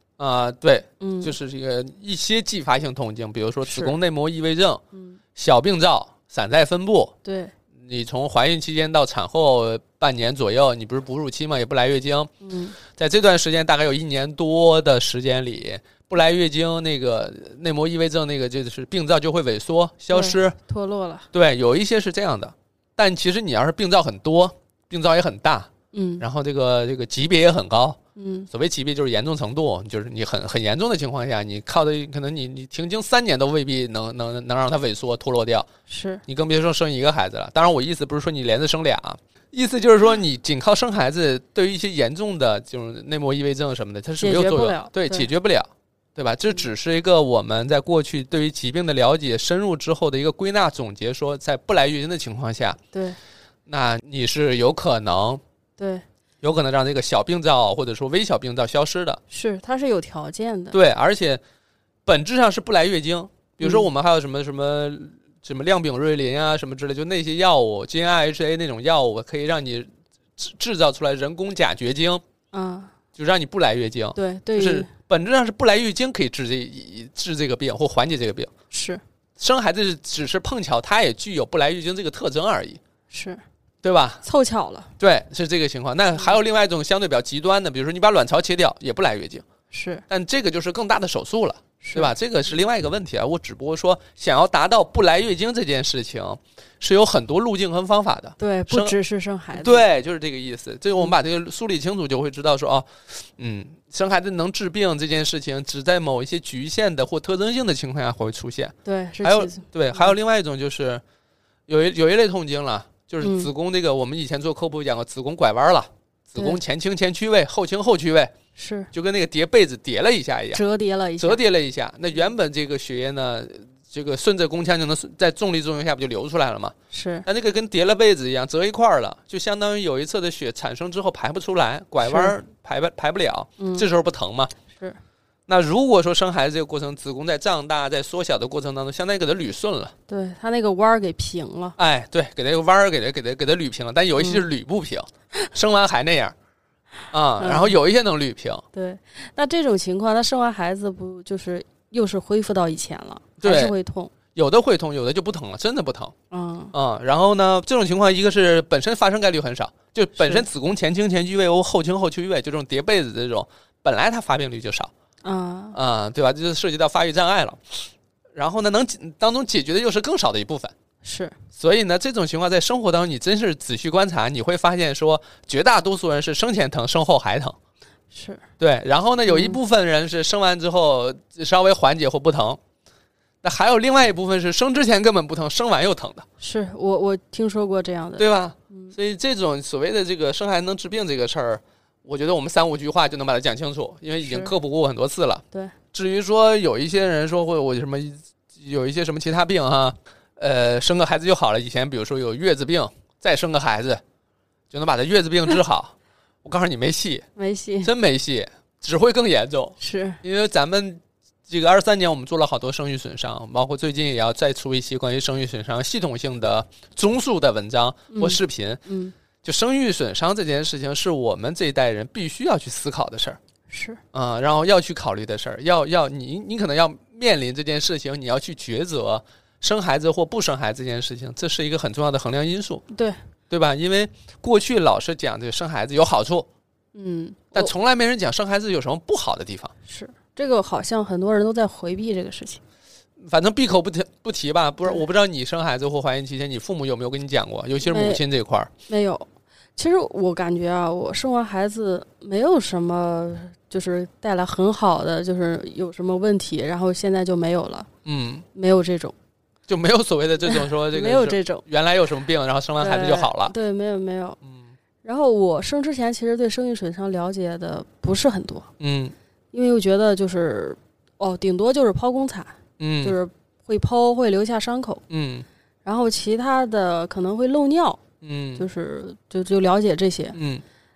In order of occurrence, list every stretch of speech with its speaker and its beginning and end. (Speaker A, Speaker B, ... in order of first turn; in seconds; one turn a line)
Speaker A: 0.2-4.8
Speaker B: 1.0-1.4
Speaker B: 3.6-4.0
Speaker A: 5.4-7.1
Speaker B: 7.2-7.5
Speaker A: 7.8-20.6
Speaker B: 12.4-12.8
Speaker B: 20.1-21.3
Speaker A: 21.3-28.0
Speaker B: 25.9-26.2
Speaker B: 28.2-28.5
Speaker A: 28.5-35.7
Speaker B: 35.9-36.2
Speaker A: 36.3-52.8
Speaker B: 44.2-45.3
Speaker B: 52.9-53.2
Speaker A: 53.7-55.4
Speaker B: 55.8-56.0
Speaker A: 56.4-59.2
Speaker B: 59.3-60.8
Speaker A: 60.7-61.4
Speaker A: 62.1-72.2
Speaker B: 63.6-63.9
Speaker B: 72.5-72.9
Speaker A: 73.2-78.5
Speaker B: 74.2-74.9
Speaker B: 78.7-79.0
Speaker A: 79.4-82.8
Speaker B: 83.1-83.4
Speaker A: 83.8-84.2
Speaker B: 84.2-84.9
Speaker A: 85.0-89.5
Speaker B: 89.7-90.0
Speaker A: 90.1-99.0
Speaker B: 91.8-92.1
Speaker B: 98.4-99.8
Speaker A: 99.5-111.0
Speaker B: 108.8-110.1
Speaker A: 111.7-118.3
Speaker B: 113.2-113.5
Speaker B: 118.6-118.9
Speaker A: 118.9-120.6
Speaker B: 120.5-121.4
Speaker A: 121.2-126.8
Speaker B: 126.9-127.3
Speaker A: 127.3-134.5
Speaker B: 132.0-132.3
Speaker B: 133.6-133.9
Speaker B: 134.7-135.0
Speaker A: 135.5-139.9
Speaker B: 140.1-141.8
Speaker A: 141.8-146.3
Speaker B: 144.2-144.4
Speaker A: 147.1-148.6
Speaker B: 147.4-147.8
Speaker B: 148.7-154.1
Speaker A: 153.4-153.7
Speaker A: 154.3-156.1
Speaker B: 156.3-156.7
Speaker A: 156.7-164.9
Speaker B: 160.2-160.4
Speaker B: 165.2-165.8
Speaker A: 165.7-167.8
Speaker A: 168.3-170.7
Speaker B: 171.0-171.4
Speaker A: 171.6-177.6
Speaker B: 178.1-178.4
Speaker A: 178.6-182.6
Speaker B: 179.3-179.6
Speaker A: 183.4-186.2
Speaker B: 186.4-188.9
Speaker A: 188.2-204.0
Speaker B: 194.2-194.5
Speaker A: 204.7-207.3
Speaker B: 207.4-207.9
Speaker A: 207.8-218.8
Speaker B: 209.8-210.2
Speaker B: 218.1-219.1
Speaker A: 219.4-223.4
Speaker B: 223.7-224.0
Speaker A: 224.1-232.8
Speaker B: 232.9-233.2
Speaker A: 233.5-236.5
Speaker B: 236.9-237.7
Speaker A: 237.5-239.7
Speaker B: 239.9-242.6
Speaker A: 243.2-248.7
Speaker B: 247.8-248.2
Speaker B: 248.9-257.9
Speaker A: 258.1-258.4
Speaker B: 258.6-259.1
Speaker A: 259.7-263.5
Speaker B: 260.4-261.6
Speaker B: 262.8-264.4
Speaker B: 265.0-268.7
Speaker A: 268.8-269.1
Speaker B: 269.5-275.0
Speaker A: 272.8-273.2
Speaker A: 275.1-275.5
Speaker B: 275.9-278.0
Speaker A: 278.2-278.6
Speaker B: 278.6-280.4
Speaker A: 280.3-280.6